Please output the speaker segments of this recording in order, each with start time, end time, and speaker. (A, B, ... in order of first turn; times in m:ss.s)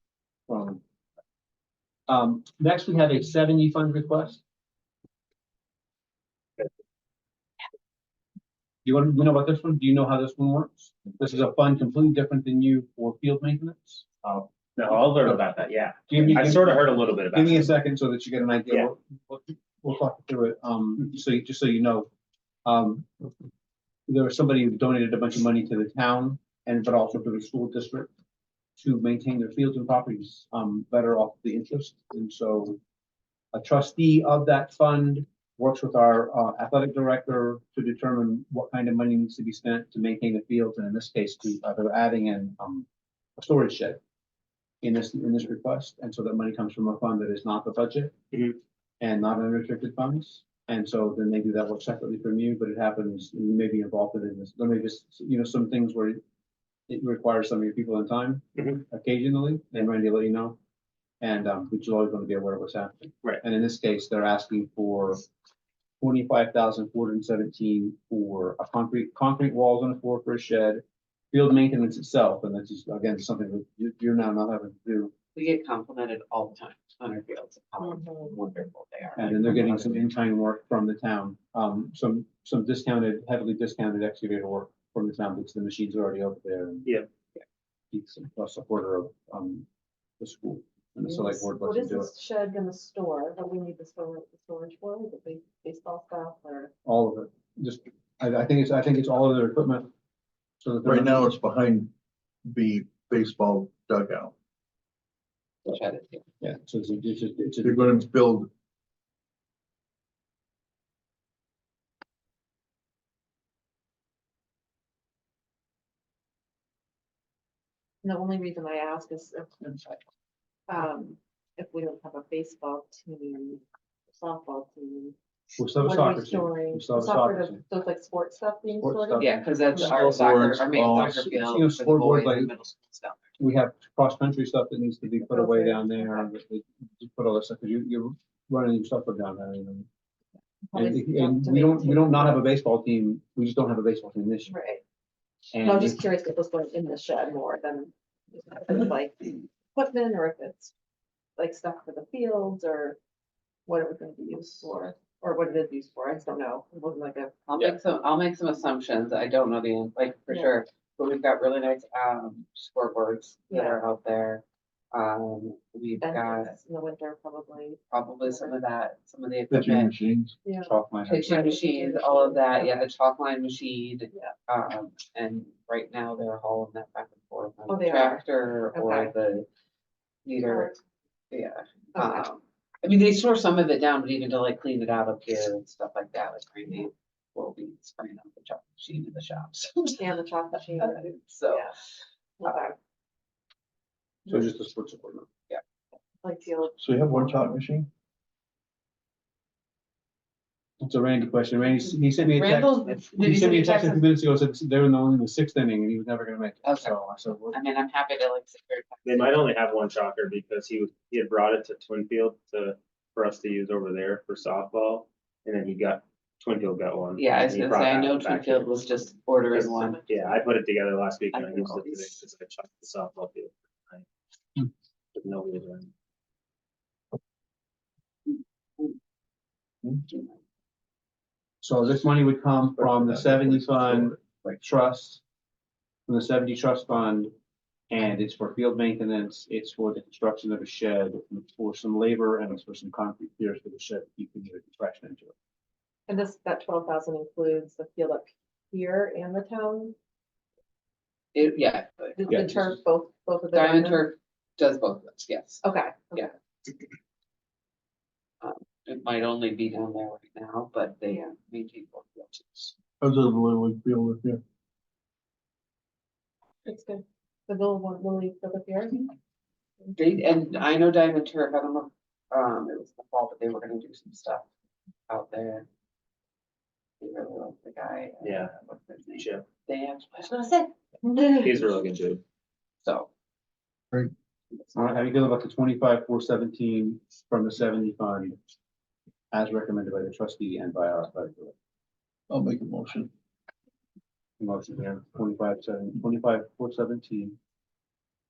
0:00.5-0:00.8 A
0:02.1-0:04.4 A
0:08.8-0:14.1 A
0:14.2-0:17.7 B
0:16.1-0:22.1 A
0:22.6-0:23.1 A
0:24.1-0:28.1 A
0:28.8-0:32.8 A
0:33.5-0:44.0 A
0:44.8-0:48.2 A
0:48.3-0:48.6 B
0:49.0-0:56.2 A
0:56.9-1:00.6 A
0:58.6-0:58.8 B
1:01.2-1:05.3 A
1:06.0-1:15.1 A
1:15.4-1:19.9 C
1:17.8-1:18.3 D
1:19.2-1:26.9 A
1:27.9-1:29.7 A
1:30.2-1:32.1 A
1:31.1-1:36.7 D
1:36.8-1:39.9 A
1:40.6-1:41.3 A
1:40.8-1:41.9 E
1:42.5-1:44.3 E
1:45.6-1:46.2 C
1:46.4-1:48.0 A
1:47.6-1:48.5 E
1:58.0-2:00.0 D
2:00.7-2:05.2 D
2:05.6-2:07.6 A
2:05.8-2:09.4 D
2:08.8-2:10.3 A
2:09.2-2:13.4 C
2:09.7-2:11.4 E
2:11.0-2:12.7 A
2:13.4-2:19.9 A
2:15.3-2:16.3 D
2:20.7-2:22.4 D
2:20.7-2:24.6 A
2:24.5-2:24.8 D
2:25.5-2:26.0 A
2:25.6-2:30.7 D
2:31.4-2:33.0 D
2:33.7-2:37.4 D
2:37.5-2:46.6 C
2:43.5-2:43.8 D
2:46.0-2:48.5 D
2:47.9-2:49.9 C
2:49.5-2:50.4 E
2:50.4-2:50.7 D
2:50.6-2:51.4 A
2:51.0-2:59.5 C
2:51.2-2:52.9 D
2:57.7-2:59.1 D
3:00.2-3:00.8 C
3:00.5-3:00.8 D
3:01.3-3:10.2 C
3:02.0-3:02.2 D
3:10.0-3:11.8 D
3:10.8-3:11.8 C
3:12.4-3:12.8 D
3:14.3-3:15.3 A
3:16.2-3:17.6 D
3:16.8-3:17.9 E
3:20.8-3:27.6 A
3:22.2-3:24.1 C
3:26.6-3:27.0 C
3:27.5-3:29.5 C
3:29.0-3:38.8 B
3:37.2-3:40.0 C
3:39.5-3:44.1 B
3:39.7-3:40.5 D
3:41.3-3:42.1 C
3:45.2-3:45.9 B
3:51.6-3:55.2 A
3:52.8-3:54.2 E
3:56.1-3:57.3 A
3:57.9-4:05.4 A
4:06.1-4:10.0 D
4:11.4-4:12.8 C
4:12.2-4:14.1 D
4:13.5-4:16.3 C
4:15.6-4:16.3 D
4:18.4-4:22.8 C
4:23.0-4:24.4 E
4:26.6-4:29.1 D
4:30.0-4:34.4 C
4:35.1-4:35.7 C
4:37.0-4:40.7 C
4:38.2-4:38.5 B
4:39.2-4:39.5 B
4:41.3-4:42.2 B
4:42.8-4:43.1 C
4:44.7-4:48.4 A
4:49.3-4:51.6 A
4:52.3-4:53.1 E
4:54.4-4:57.4 A